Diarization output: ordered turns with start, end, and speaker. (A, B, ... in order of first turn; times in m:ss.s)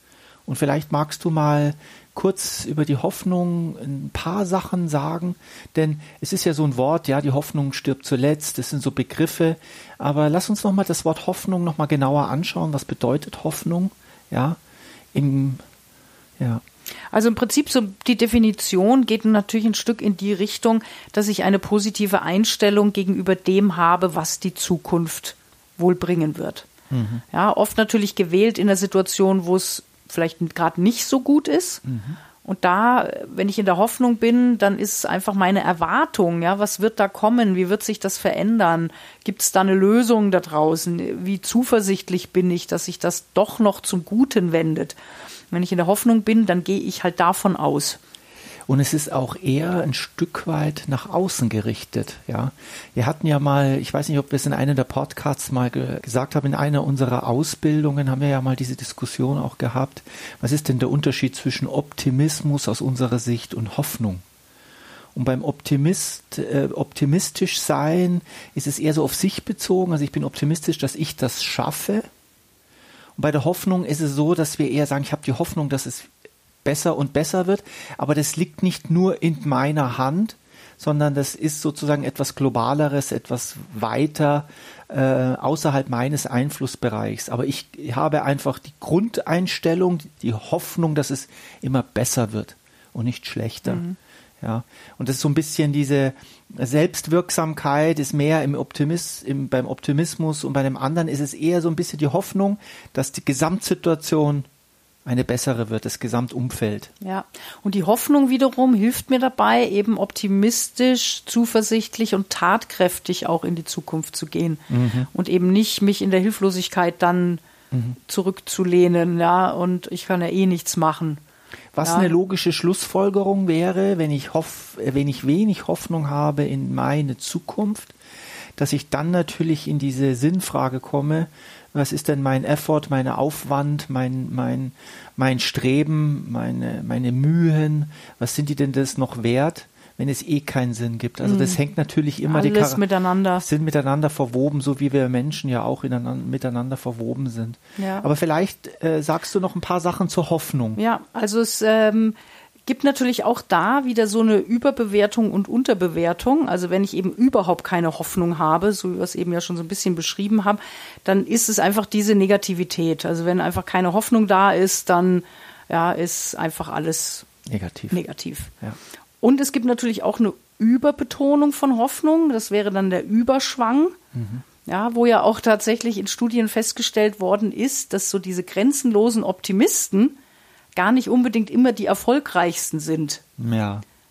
0:00.5-0:14.6 A
0:15.1-0:15.6 A
0:17.1-0:26.7 B
0:26.9-0:27.2 A
0:27.3-0:31.8 B
0:31.8-0:32.2 A
0:32.4-0:45.0 B
0:45.5-0:48.0 B
0:48.7-1:04.2 A
1:05.1-1:12.1 A
1:13.2-1:16.1 A
1:16.6-1:33.8 A
1:33.6-1:34.0 B
1:34.4-1:44.5 A
1:45.0-1:46.9 A
1:47.0-1:57.4 B
1:54.7-1:55.1 A
1:57.7-1:58.0 A
1:58.1-2:01.2 B
2:01.7-2:07.9 A
2:01.8-2:02.1 B
2:08.6-2:22.8 A
2:21.2-2:21.6 B
2:22.2-2:23.4 B
2:23.4-2:30.8 A
2:27.8-2:28.1 B
2:30.8-2:47.3 B
2:47.5-2:48.0 A
2:47.9-2:48.5 B
2:49.2-2:54.0 B
2:54.1-2:54.4 A
2:54.6-3:00.2 B
3:00.7-3:03.2 B
3:03.4-3:03.8 A